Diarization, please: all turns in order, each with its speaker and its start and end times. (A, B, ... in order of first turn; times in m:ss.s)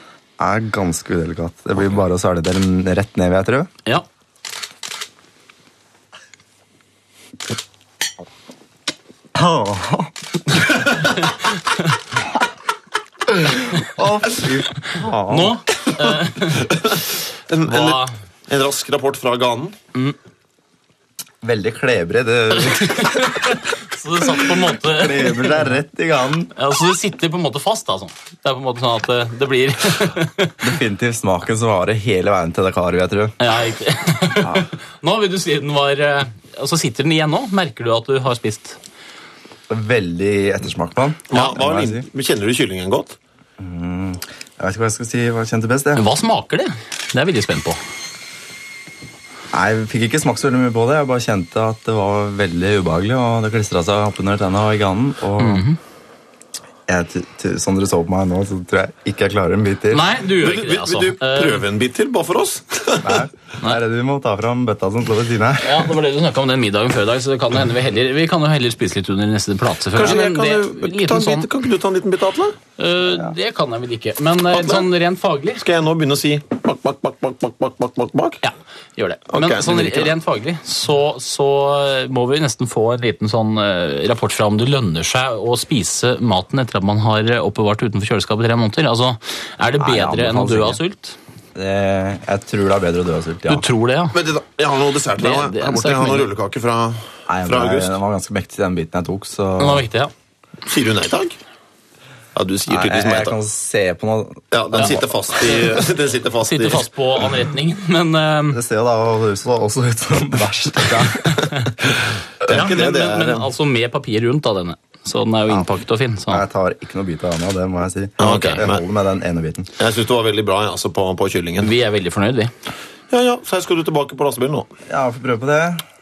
0:00.4-0:03.7 A
0:09.3-0:10.1 A
0:13.5-0:15.6 A
0:15.3-0:16.7 B
0:17.5-0:19.8 C
0:17.6-0:18.1 B
0:21.4-0:23.4 A
0:22.8-0:25.7 B
0:24.7-0:26.5 A
0:26.6-0:30.5 B
0:30.6-0:33.3 A
0:33.4-0:38.8 B
0:34.4-0:34.7 A
0:39.7-0:42.1 A
0:41.3-0:43.2 C
0:43.6-0:46.0 A
0:46.0-0:47.8 B
0:49.5-0:55.7 A
0:55.4-0:55.8 B
0:56.9-1:00.1 A
0:59.9-1:01.6 B
1:00.4-1:03.2 C
1:03.0-1:05.9 A
1:05.6-1:11.5 B
1:09.9-1:12.6 C
1:12.8-1:15.6 B
1:13.1-1:13.3 A
1:14.5-1:14.9 C
1:15.6-1:18.4 C
1:18.4-1:31.2 B
1:19.3-1:20.1 C
1:29.8-1:30.8 A
1:31.5-1:33.7 A
1:33.5-1:34.1 B
1:34.1-1:37.9 C
1:35.2-1:36.3 B
1:37.3-1:39.9 A
1:39.6-1:40.1 B
1:40.6-1:41.4 C
1:42.3-1:43.4 C
1:42.7-1:45.1 A
1:44.5-1:46.8 C
1:46.4-1:48.6 B
1:48.5-1:51.4 A
1:52.4-1:53.5 C
1:52.5-1:56.4 B
1:55.5-1:55.8 A
1:56.3-1:59.7 A
1:58.2-1:58.8 C
1:58.2-1:58.6 B
1:59.8-2:01.7 C
2:01.6-2:02.5 B
2:03.1-2:04.7 C
2:04.9-2:05.8 A